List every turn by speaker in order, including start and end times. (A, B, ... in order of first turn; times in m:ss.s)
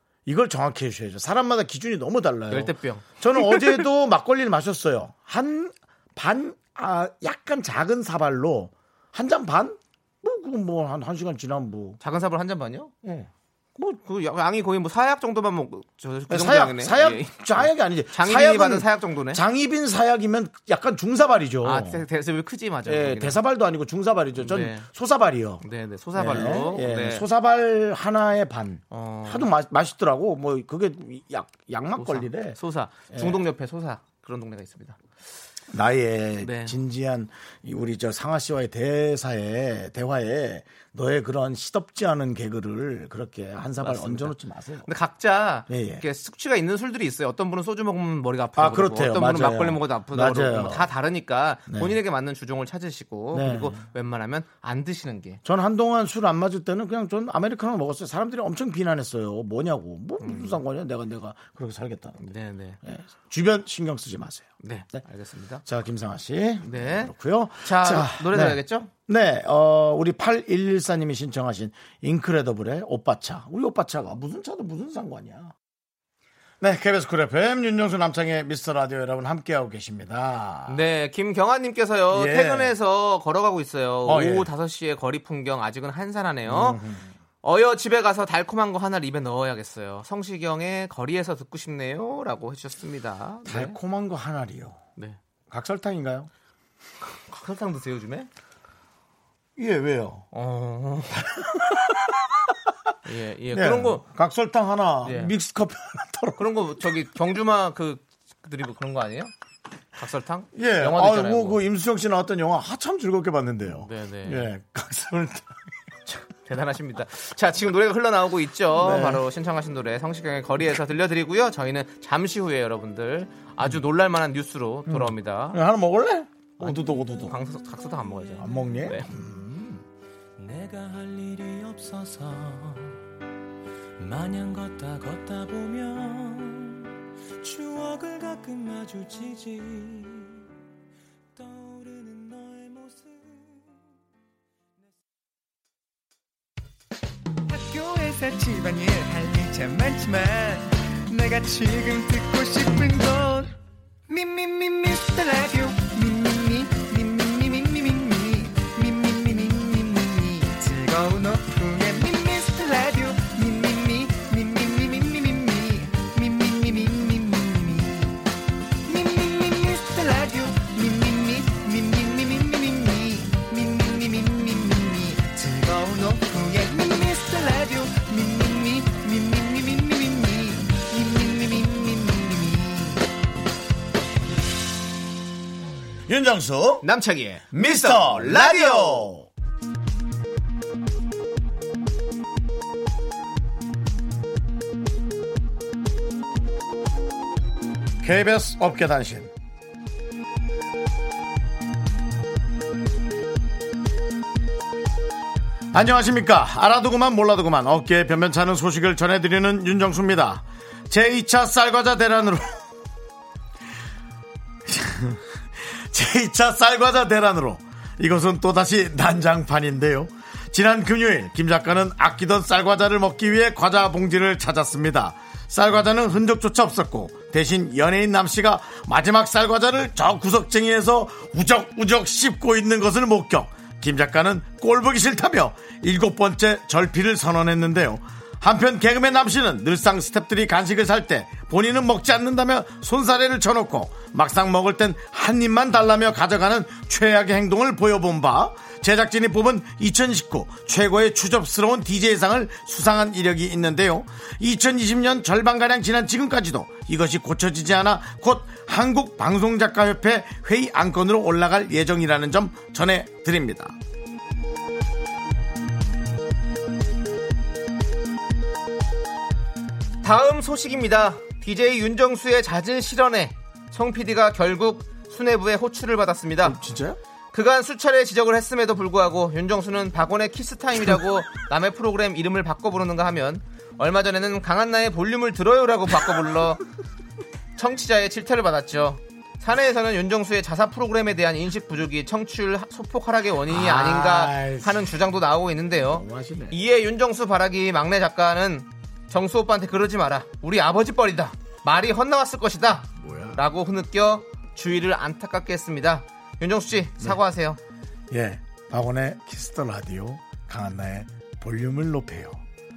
0:00.2-0:12.0 A
0:02.5-0:03.8 B
0:12.0-0:12.9 B
0:13.0-0:13.3 A
0:13.8-0:19.4 B
0:16.3-0:22.1 A
0:21.6-0:23.4 B
0:22.9-0:25.6 A
0:24.4-0:24.9 B
0:25.6-0:27.2 B
0:26.1-0:32.6 A
0:28.9-0:29.5 B
0:32.0-0:35.0 B
0:33.1-0:33.4 A
0:35.7-0:44.9 A
0:36.4-0:36.8 B
0:43.8-0:55.4 B
0:45.7-0:46.0 A
0:48.6-0:50.9 A
0:51.7-0:52.0 A
0:53.3-0:53.8 A
0:55.4-1:05.0 A
1:00.2-1:00.6 B
1:02.2-1:02.8 B
1:04.6-1:05.6 B
1:05.6-1:15.5 A
1:06.6-1:08.9 B
1:16.6-1:20.8 A
1:20.7-1:26.8 B
1:22.1-1:22.7 A
1:24.0-1:24.5 A
1:26.5-1:27.1 A
1:27.4-1:33.8 B
1:33.4-1:34.8 A
1:35.5-1:36.3 A
1:37.3-1:38.3 B
1:39.6-1:40.3 A
1:40.3-1:41.3 B
1:41.2-1:42.5 A
1:43.0-1:44.0 B
1:43.5-1:46.9 A
1:45.0-1:45.3 B
1:46.4-1:49.3 B
1:50.0-1:51.6 B
1:50.5-1:55.6 A
1:53.8-1:54.5 B
1:56.1-2:05.6 B
1:58.7-1:59.2 A
2:04.9-2:07.4 A
2:06.6-2:09.1 B
2:08.4-2:09.8 A
2:10.4-2:13.0 C
2:14.0-2:16.9 C
2:17.4-2:20.4 C
2:21.4-2:23.6 C
2:27.5-2:33.5 D
2:34.1-2:48.2 D
2:48.9-3:03.0 D
3:06.1-3:06.9 A
3:06.8-3:09.1 B
3:07.5-3:09.3 A
3:18.0-3:19.3 A
3:25.7-3:32.6 A
3:34.6-4:23.8 A
4:30.0-4:36.6 B
4:36.4-4:37.0 A
4:37.3-4:46.6 B
4:47.6-5:07.6 B
4:53.5-4:55.0 A
4:55.8-4:56.6 A
5:03.0-5:03.4 A
5:08.1-5:12.4 A